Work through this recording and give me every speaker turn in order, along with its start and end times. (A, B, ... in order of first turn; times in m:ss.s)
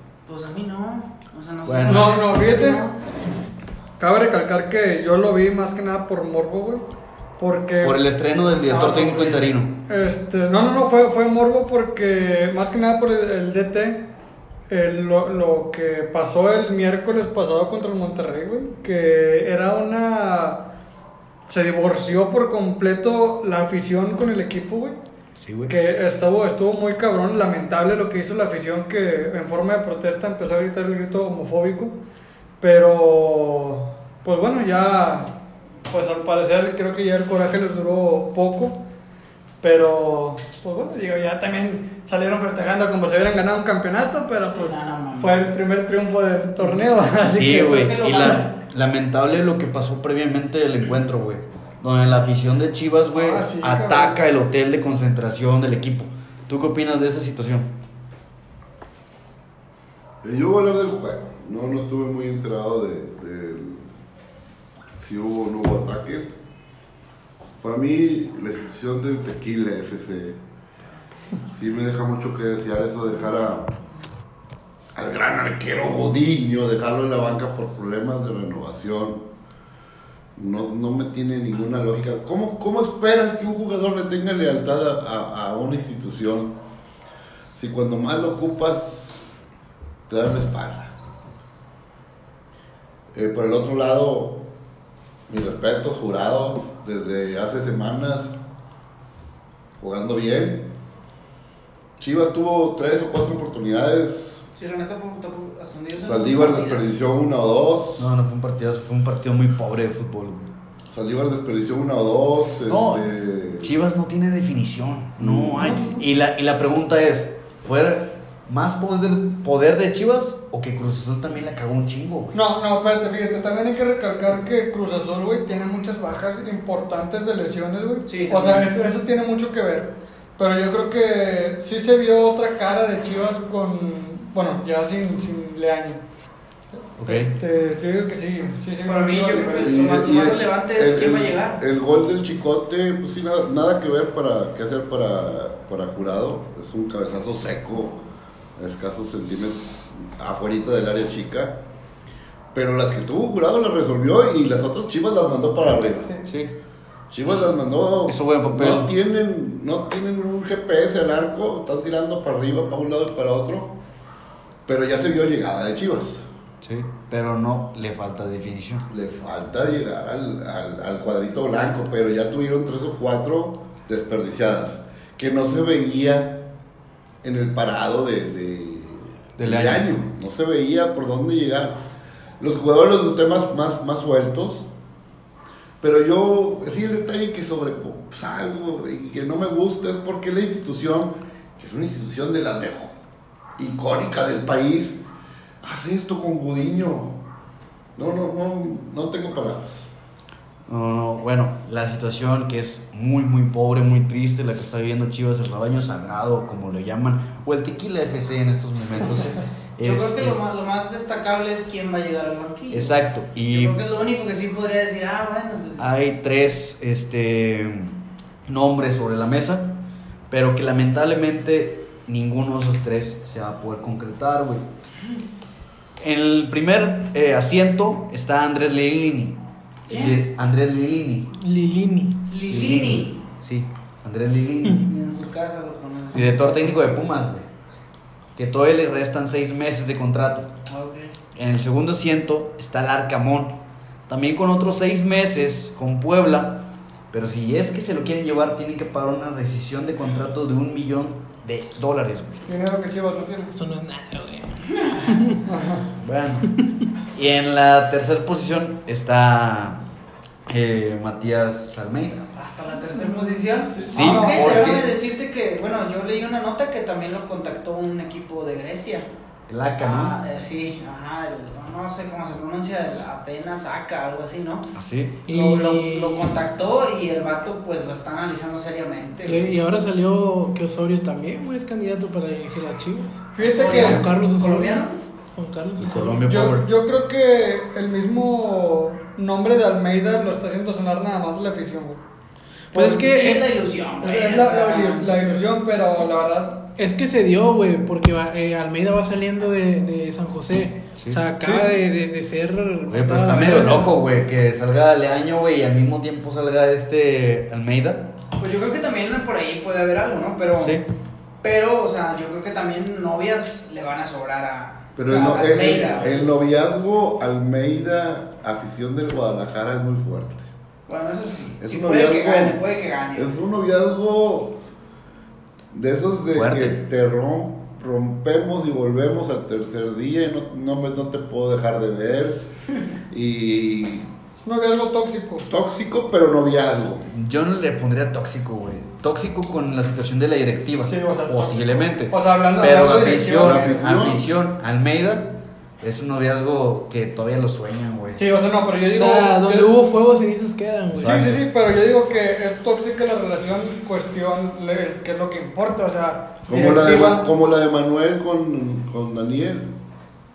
0:00.2-0:03.0 A
0:01.6-0:02.2 B
0:01.8-0:02.8 C
0:04.0-0:06.8 C
0:07.4-0:08.0 C
0:07.8-0:09.8 B
0:08.5-0:09.5 A
0:09.9-0:14.0 C
0:14.7-0:20.6 C
0:21.4-0:25.0 C
0:25.4-0:25.7 B
0:25.7-0:31.9 C
0:32.6-0:35.3 C
0:35.9-0:38.8 C
0:39.6-0:47.8 C
0:44.5-0:45.5 A
0:47.2-0:57.7 B
0:47.6-0:48.5 A
0:53.1-0:54.2 C
1:00.2-1:03.8 D
1:05.0-1:06.3 D
1:07.6-1:10.4 D
1:11.5-1:13.8 D
1:14.9-1:19.3 D
1:20.4-1:26.6 D
1:27.5-1:29.1 D
1:30.1-1:30.9 D
1:33.1-1:34.4 D
1:35.3-1:38.4 D
1:39.8-1:40.7 D
1:42.0-1:44.4 D
1:44.5-1:46.9 A
1:46.0-1:48.1 D
1:48.0-1:50.5 B
1:50.9-1:53.7 D
1:52.7-1:53.0 B
1:53.6-2:02.4 B
1:55.2-1:55.8 D
1:55.6-1:56.0 C
2:02.3-2:16.0 C
2:08.0-2:08.7 A
2:17.0-2:17.3 B
2:17.0-2:19.8 C
2:18.8-2:21.6 A
2:19.6-2:28.0 D
2:28.6-2:31.6 D
2:32.5-2:36.1 D
2:36.2-2:36.6 B
2:37.1-2:43.8 D
2:38.0-2:38.9 B
2:44.6-2:46.2 D
2:46.6-2:48.8 B
2:48.9-2:56.4 D
2:57.2-3:01.8 D
2:59.4-2:59.9 B
3:02.4-3:04.7 D
3:05.8-3:12.9 D
3:13.6-3:15.0 D
3:15.6-3:17.2 D
3:18.0-3:19.9 D
3:20.7-3:30.4 B
3:29.8-3:35.8 A
3:32.7-3:33.8 B
3:35.8-3:39.7 B
3:40.3-3:44.6 B
3:46.0-3:51.4 B
3:49.9-3:50.2 A
3:51.4-3:52.3 E
3:52.3-3:53.2 A
3:52.5-3:54.9 B
3:54.8-3:56.5 A
3:56.1-3:57.4 B
3:58.3-4:00.5 B
4:00.7-4:01.1 A
4:01.3-4:03.6 B
4:04.1-4:12.4 B
4:12.5-4:13.5 C
4:13.5-4:15.4 E
4:14.8-4:15.1 A
4:15.4-4:15.8 C
4:16.0-4:16.6 B
4:17.1-4:19.8 B
4:20.5-4:22.2 B
4:22.3-4:29.1 A
4:23.0-4:24.8 C
4:23.9-4:24.8 B
4:29.5-4:30.2 B
4:29.8-4:34.7 A
4:34.7-4:35.2 B
4:35.3-4:36.3 E
4:35.3-4:36.3 C
4:36.0-4:39.5 A
4:39.2-4:46.2 E
4:43.3-4:44.0 C
4:43.4-4:45.0 A
4:43.7-4:44.0 B
4:45.8-4:46.7 B
4:46.3-4:52.0 C
4:52.7-4:53.1 C
4:52.7-4:53.5 E
4:52.9-4:55.2 A
4:54.0-4:56.7 C
4:56.8-5:04.0 E
5:01.0-5:01.2 B
5:01.4-5:01.8 C
5:02.9-5:08.1 B
5:03.5-5:03.8 C
5:08.4-5:10.8 A
5:10.6-5:10.8 B
5:11.4-5:16.3 A
5:15.0-5:20.5 D
5:20.9-5:23.4 A
5:21.6-5:22.6 D
5:23.1-5:24.6 D
5:25.7-5:32.4 D
5:26.3-5:26.8 B
5:33.1-5:34.1 D
5:34.4-5:35.5 C
5:35.5-5:37.0 D
5:37.1-5:48.2 B
5:40.8-5:43.8 C
5:43.4-5:44.2 D
5:48.1-5:49.7 C
5:48.9-5:51.2 E
5:50.9-5:51.4 B
5:51.0-5:57.3 C
5:56.5-5:59.7 D